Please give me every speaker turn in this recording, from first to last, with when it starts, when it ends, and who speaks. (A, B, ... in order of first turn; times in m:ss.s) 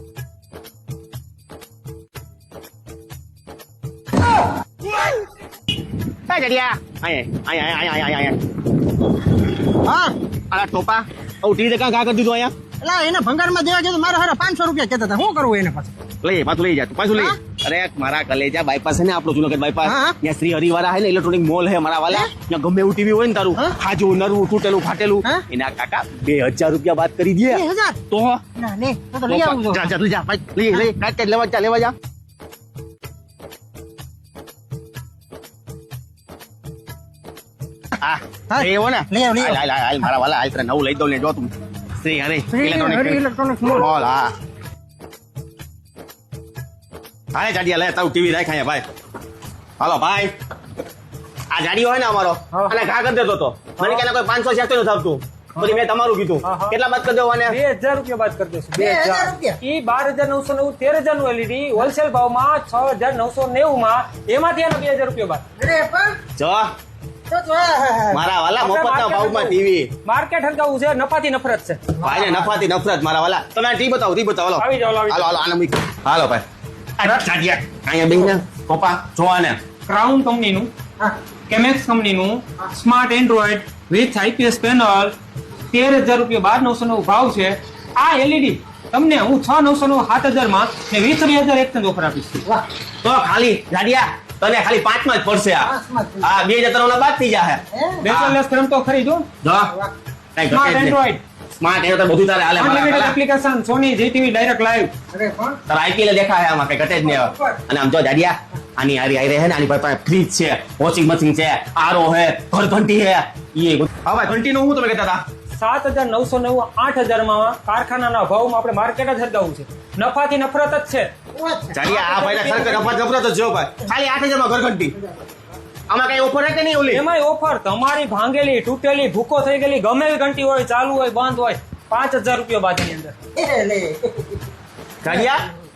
0:06.3-0:08.4 A
0:09.8-0:10.2 B
0:10.5-0:12.5 A
0:12.8-0:15.9 B
0:16.2-0:28.4 A
0:19.8-0:20.2 B
0:27.5-0:28.0 B
0:28.6-0:29.9 B
0:29.3-0:31.9 A
0:38.0-0:44.3 A
0:38.5-0:39.6 B
0:42.5-0:43.9 B
0:47.3-0:48.8 A
0:49.8-0:50.3 A
0:51.5-0:57.6 A
0:55.6-0:55.8 C
0:56.4-0:56.8 C
0:57.5-1:05.4 C
0:58.7-0:59.6 B
1:05.6-1:06.2 B
1:06.4-1:06.7 A
1:07.3-1:08.2 B
1:08.1-1:09.9 A
1:08.6-1:11.8 C
1:12.0-1:12.6 B
1:12.0-1:16.4 A
1:14.6-1:15.3 C
1:17.0-1:19.6 A
1:19.9-1:20.7 C
1:21.5-1:25.1 C
1:25.7-1:32.4 C
1:33.0-1:38.4 A
1:35.6-1:36.3 B
1:37.7-1:38.0 B
1:38.0-1:39.3 C
1:39.4-1:39.7 A
1:40.4-1:40.9 A
1:40.5-1:41.2 C
1:41.6-1:43.1 A
1:42.6-1:44.9 C
1:45.1-1:45.6 B
1:45.7-1:55.2 A
1:47.0-1:47.6 B
1:55.5-2:01.1 C
2:01.3-2:01.9 B
2:01.7-2:04.9 A
2:01.9-2:02.9 C
2:05.9-2:07.0 A
2:06.9-2:13.1 C
2:13.4-2:14.4 B
2:15.0-2:15.5 A
2:15.0-2:15.4 B